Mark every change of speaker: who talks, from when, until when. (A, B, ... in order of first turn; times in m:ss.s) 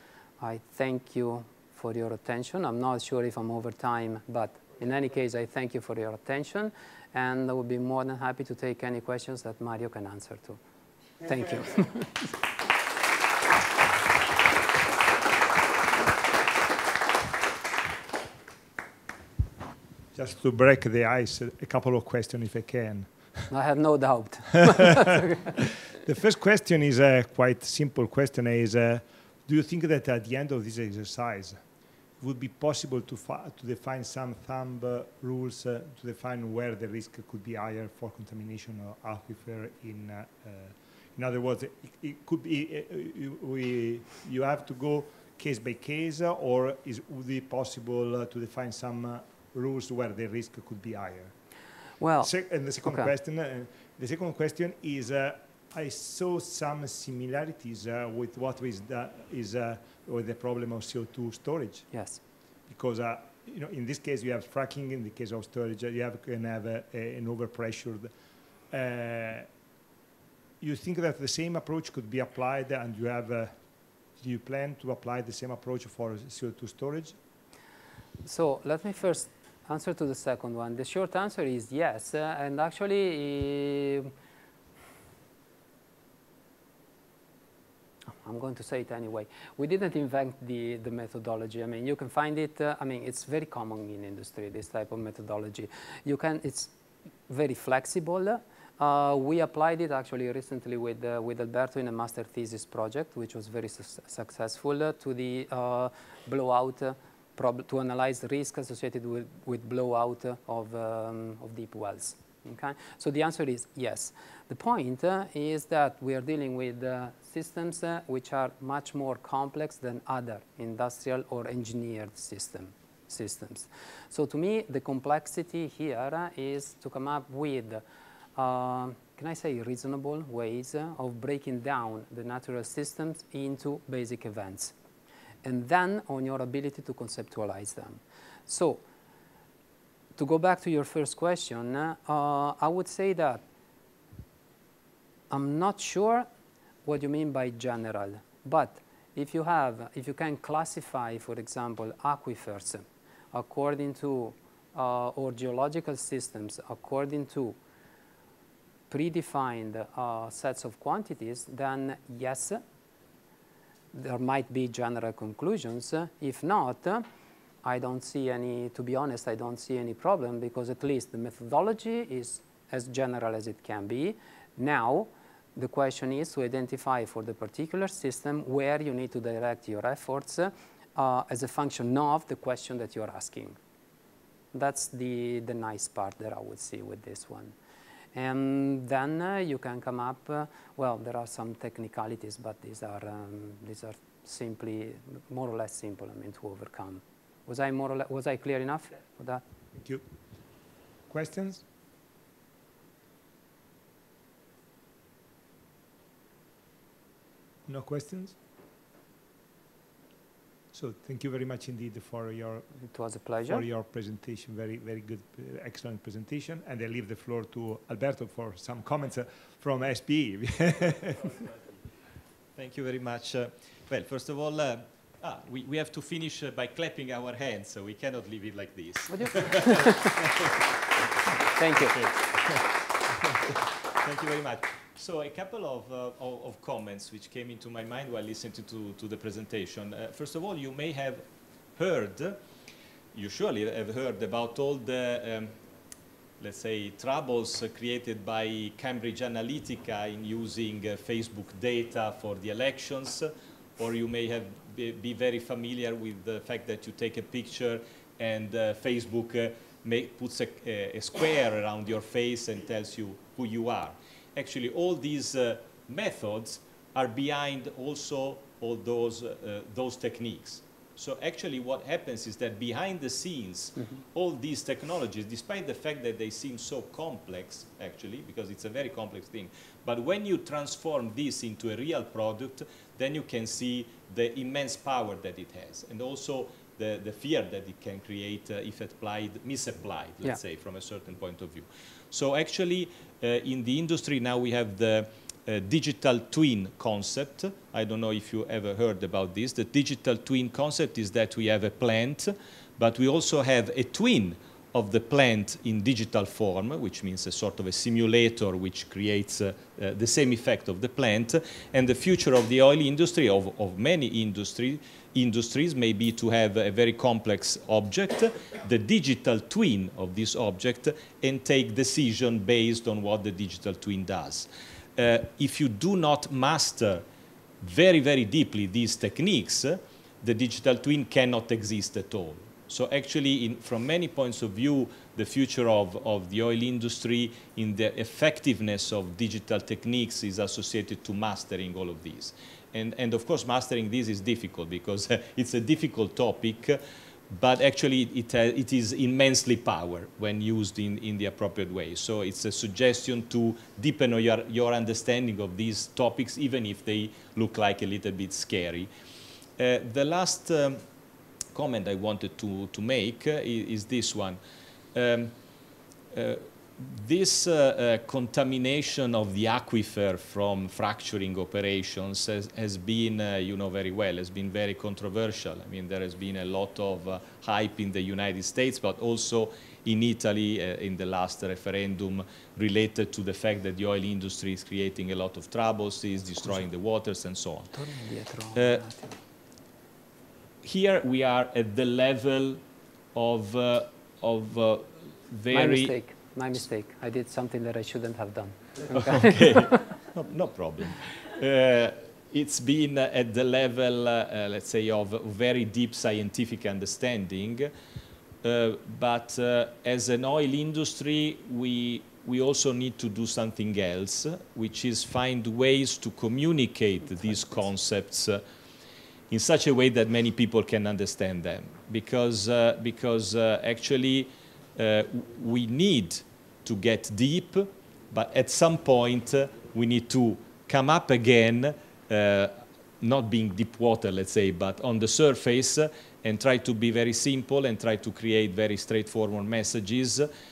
0:00.4-0:10.6 A
0:11.2-0:12.3 A
0:20.1-0:23.5 B
0:23.5-0:25.5 A
0:26.0-0:31.6 B
0:32.2-0:51.3 B
0:52.0-0:52.3 A
0:52.2-1:01.9 B
1:01.9-1:02.2 A
1:02.7-1:08.1 B
1:08.7-1:09.5 B
1:10.6-1:13.6 B
1:14.2-1:17.2 B
1:18.2-1:24.1 A
1:28.1-1:36.7 A
1:37.3-2:07.8 A
2:08.4-2:14.7 A
2:15.4-2:18.8 A
2:20.2-2:23.4 A
2:25.3-2:26.3 A
2:26.8-2:37.6 A
2:38.9-2:42.6 A
2:43.9-2:47.0 A
2:47.6-3:03.6 A
3:04.5-3:07.5 A
3:08.1-3:19.4 A
3:19.7-3:20.0 B
3:21.1-3:21.6 B
3:27.6-3:28.4 B
3:30.7-3:32.7 B
3:32.8-3:33.6 A
3:33.4-3:41.4 B
3:42.6-3:50.6 C
3:49.1-3:50.1 A
3:51.5-3:52.1 A
3:51.8-3:52.7 C
3:53.2-4:01.2 C
4:01.8-4:02.4 C
4:03.1-4:05.6 C
4:06.4-5:27.0 C
5:27.6-5:46.8 C
5:47.3-5:58.9 C
5:59.6-6:00.8 C
6:01.5-6:04.4 C
6:04.9-6:05.4 C
6:06.1-6:27.8 C
6:27.7-6:29.1 A
6:28.5-6:28.8 C
6:30.6-6:32.6 C
6:33.1-6:35.9 C
6:35.5-6:39.9 A
6:39.0-6:47.7 C
6:48.4-6:58.4 C
6:59.3-7:20.3 C